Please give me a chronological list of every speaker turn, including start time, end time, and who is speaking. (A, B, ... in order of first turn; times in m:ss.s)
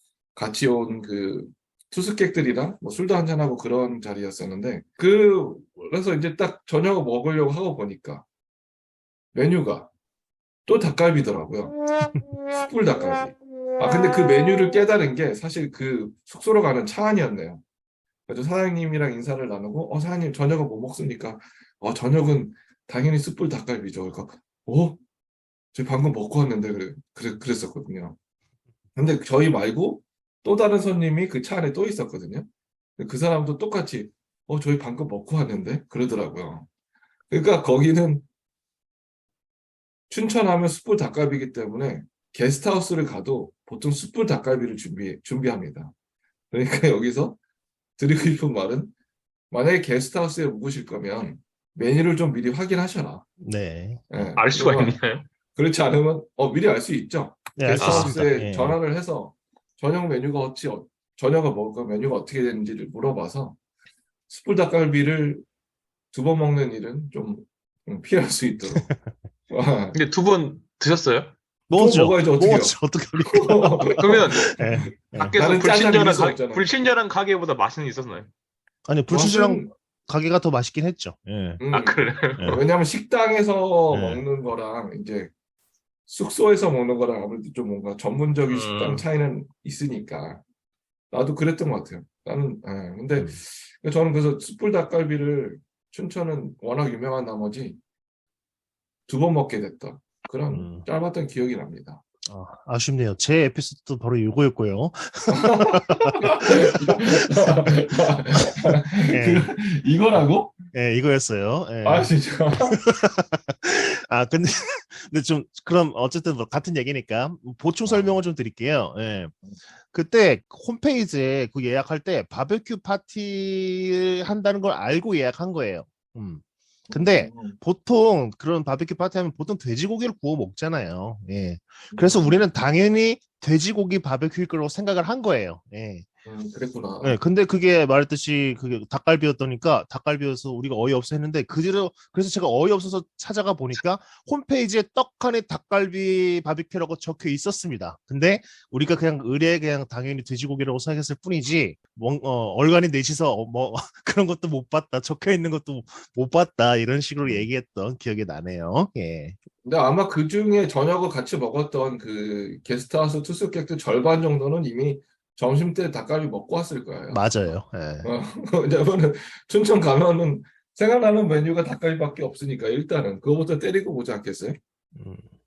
0:00.3-0:08.2 A
0:09.3-0:09.9 A
0:10.6-0:11.8 A
0:12.6-0:17.6 A
0:18.3-0:25.0 A
0:25.7-0:28.2 A
0:29.0-0:36.7 A
0:37.3-0:38.2 A
0:40.1-0:45.9 A
0:46.5-0:47.4 A
0:48.0-0:48.9 A
0:49.5-0:53.2 A
0:53.4-0:54.2 B
0:54.1-0:55.0 A
0:54.4-0:55.3 C
0:55.5-1:03.6 A
0:57.6-0:58.8 B
0:57.8-0:58.2 C
1:04.3-1:05.4 A
1:06.1-1:08.9 A
1:08.7-1:09.1 B
1:09.5-1:10.0 A
1:09.9-1:11.3 C
1:11.7-1:15.4 B
1:11.7-1:12.8 A
1:13.3-1:16.7 A
1:13.9-1:18.3 C
1:18.8-1:21.6 B
1:19.1-1:19.7 A
1:21.6-1:25.3 A
1:21.7-1:22.6 C
1:22.4-1:22.6 B
1:23.9-1:24.2 B
1:26.1-1:30.4 A
1:28.5-1:29.0 C
1:31.1-1:37.8 A
1:39.1-1:42.0 A
1:40.5-1:40.8 B
1:42.2-1:46.5 B
1:45.3-1:50.6 A
1:47.4-1:47.7 B
1:48.7-1:49.5 B
1:50.1-1:59.3 B
1:51.8-1:52.8 A
1:57.9-1:58.2 A
1:59.9-2:16.1 B
2:06.9-2:07.6 A
2:11.9-2:12.4 A
2:16.2-2:17.2 A
2:17.0-2:39.4 B
2:37.2-2:37.5 A
2:39.6-2:47.2 A
2:47.1-2:48.1 B
2:48.0-2:54.6 A
2:55.0-2:55.3 B